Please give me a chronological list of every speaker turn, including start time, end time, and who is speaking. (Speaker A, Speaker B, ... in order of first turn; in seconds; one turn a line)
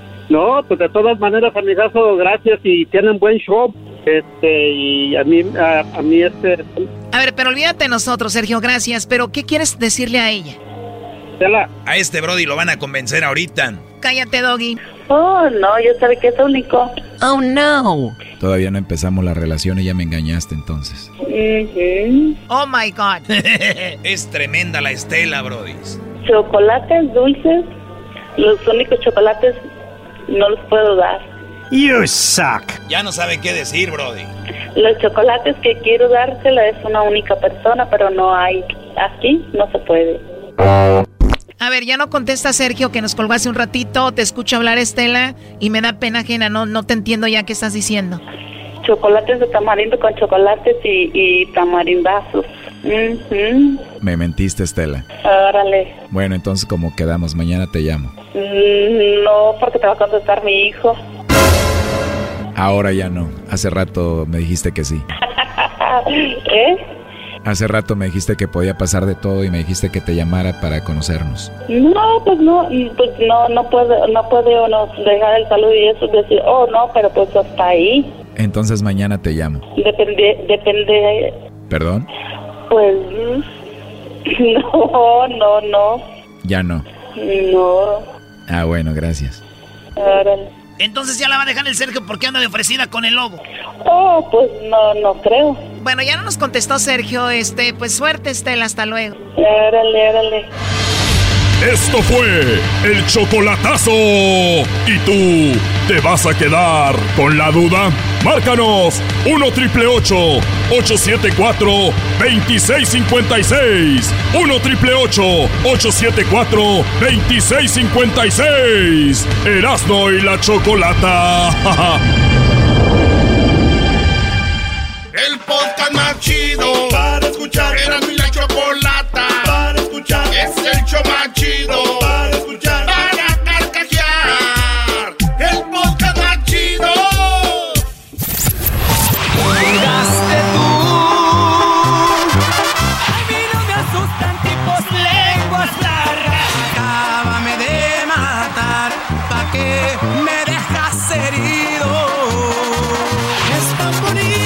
Speaker A: 0.3-6.8
Speaker B: 7.1-10.6
Speaker A: 11.4-11.7
Speaker C: 11.9-13.8
Speaker B: 14.0-14.8
Speaker D: 15.1-16.9
Speaker E: 18.4-21.1
Speaker D: 21.2-22.4
Speaker B: 22.5-23.3
Speaker F: 23.3-24.0
Speaker C: 24.0-26.0
Speaker D: 26.2-27.7
Speaker D: 28.4-29.6
Speaker D: 30.3-31.2
Speaker C: 32.9-34.3
Speaker D: 34.8-40.2
Speaker B: 41.6-48.2
Speaker D: 48.8-53.9
Speaker E: 54.0-55.1
Speaker D: 55.2-56.0
Speaker E: 56.1-58.2
Speaker D: 58.2-61.0
Speaker E: 62.5-65.0
Speaker D: 65.3-66.8
Speaker E: 67.4-71.5
Speaker D: 71.7-78.1
Speaker E: 78.4-79.7
Speaker D: 79.8-81.3
Speaker E: 81.7-82.1
Speaker D: 82.7-83.4
Speaker D: 84.3-86.0
Speaker E: 86.4-86.8
Speaker D: 87.2-88.0
Speaker E: 88.5-89.4
Speaker D: 90.0-90.5
Speaker F: 90.8-93.4
Speaker D: 93.8-95.6
Speaker B: 95.8-99.2
Speaker D: 99.4-100.5
Speaker G: 101.6-122.0
Speaker H: 125.1-137.7
Speaker F: 144.7-146.7